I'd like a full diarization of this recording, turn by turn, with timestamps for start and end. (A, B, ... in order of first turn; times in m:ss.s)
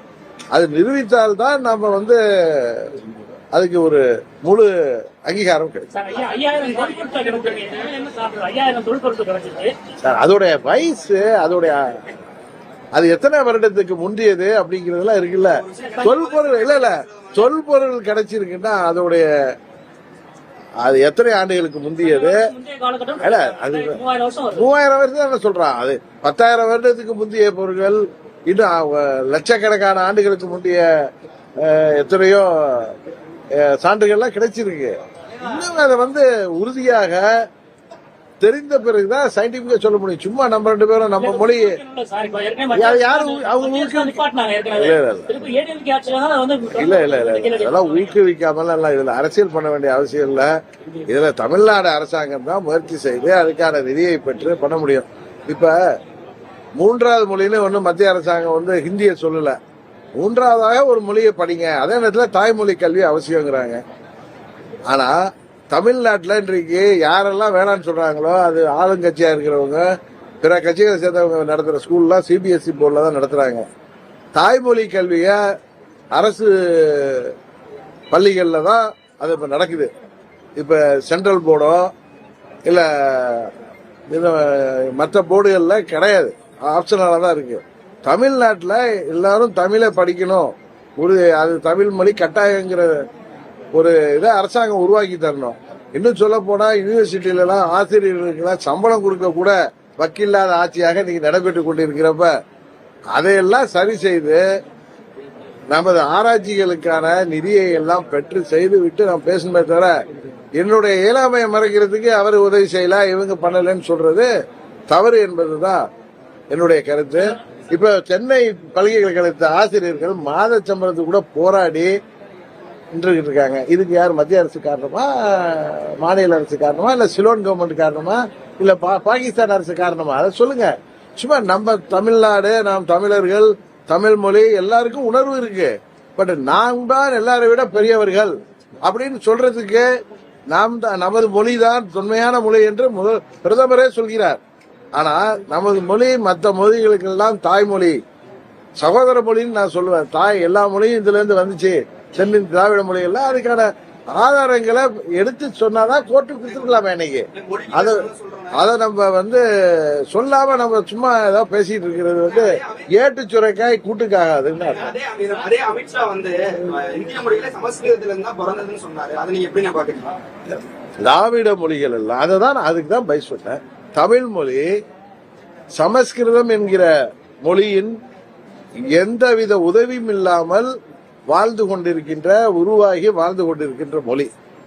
0:00.5-0:03.0 A
0:03.5-0:04.7 A
0:05.2-0:05.9 A
0:05.9-0:09.7 B
0:10.0-0:11.9 A
0:13.0-0:19.3 A
0:15.6-0:17.4 C
0:20.8-0:22.5 A
0:22.0-0:24.7 B
0:23.2-0:24.0 A
0:24.5-0:30.9 A
0:31.6-0:33.0 A
0:33.5-0:37.3 A
0:38.4-0:41.8 A
0:41.2-0:48.2 B
0:42.7-0:45.5 A
0:46.8-0:50.5 A
0:51.1-0:55.8 A
0:56.8-0:59.6 A
1:00.2-1:03.8 A
1:04.9-1:05.2 A
1:05.7-1:09.9 A
1:10.4-1:13.7 A
1:14.4-1:15.4 A
1:16.1-1:17.4 A
1:18.1-1:19.9 A
1:20.6-1:21.9 A
1:22.7-1:23.5 A
1:24.1-1:33.1 A
1:33.7-1:42.3 A
1:43.1-1:44.4 A
1:45.7-1:49.9 A
1:50.6-1:54.3 A
1:54.9-1:55.8 A
1:56.5-2:01.9 A
2:02.9-2:19.9 A
2:20.5-2:24.4 A
2:25.0-2:28.0 A
2:28.8-2:44.9 A
2:37.3-2:38.6 C
2:42.3-2:42.9 C
2:44.6-2:50.1 C
2:51.0-2:54.7 A
2:55.8-2:58.0 A
2:58.8-3:00.7 A
3:01.3-3:04.3 A